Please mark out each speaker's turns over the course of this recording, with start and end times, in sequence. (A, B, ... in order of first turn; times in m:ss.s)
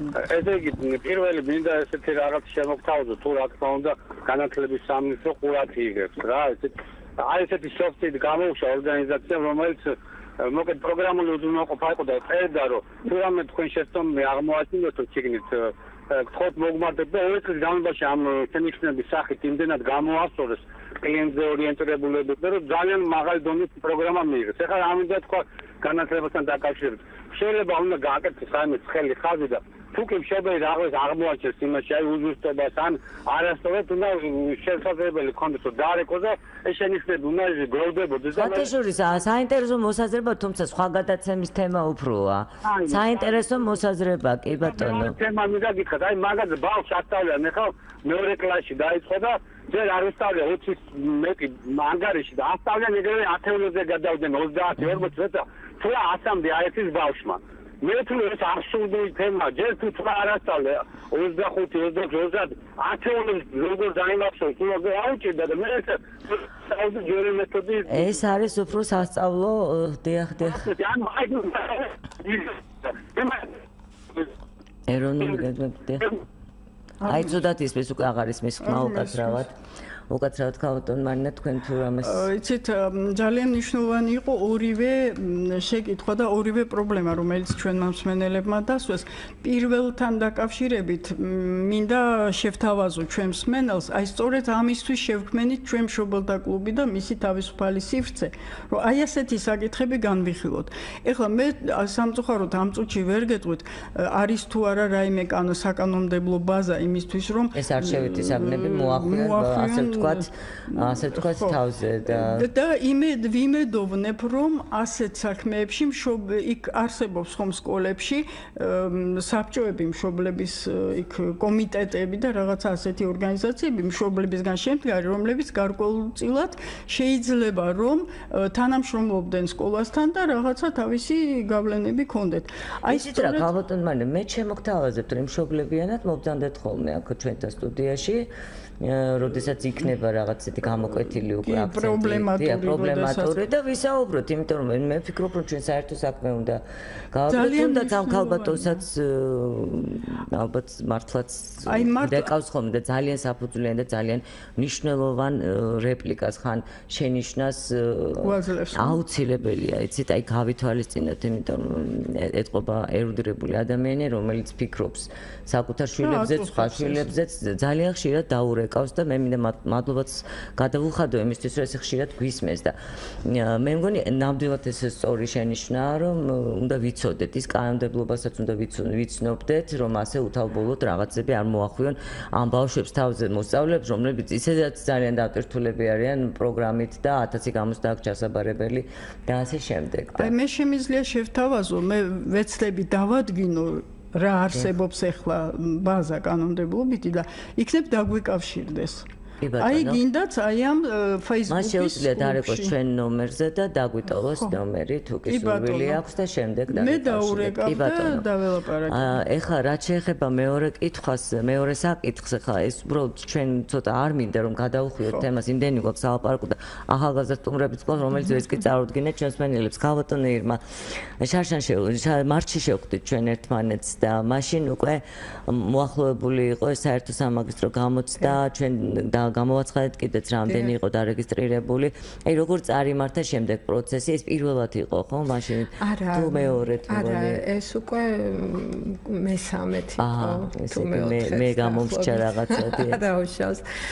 0:00.2-0:38.7 A
0:38.3-0:45.2 B
0:42.7-0:43.7 A
0:44.6-1:08.1 A
1:07.8-1:10.7 B
1:10.4-1:13.5 A
1:14.9-1:16.1 B
1:17.0-1:17.4 C
1:17.1-1:19.5 B
1:18.6-1:19.4 C
1:20.1-1:22.3 B
1:22.0-2:13.5 C
1:47.5-1:52.5 B
2:12.9-3:10.3 B
2:21.4-2:23.4 C
2:27.3-2:28.8 C
2:31.6-2:32.3 C
2:38.2-2:39.0 C
2:46.0-2:47.1 C
3:10.2-3:19.1 C
3:19.4-3:20.0 B
3:19.6-3:22.7 C
3:21.5-3:28.2 B
3:25.3-3:26.0 C
3:26.7-3:29.2 C
3:28.9-3:40.6 B
3:41.2-3:57.4 B
3:50.5-3:50.7 D
3:55.8-4:03.6 D
4:00.0-4:03.0 B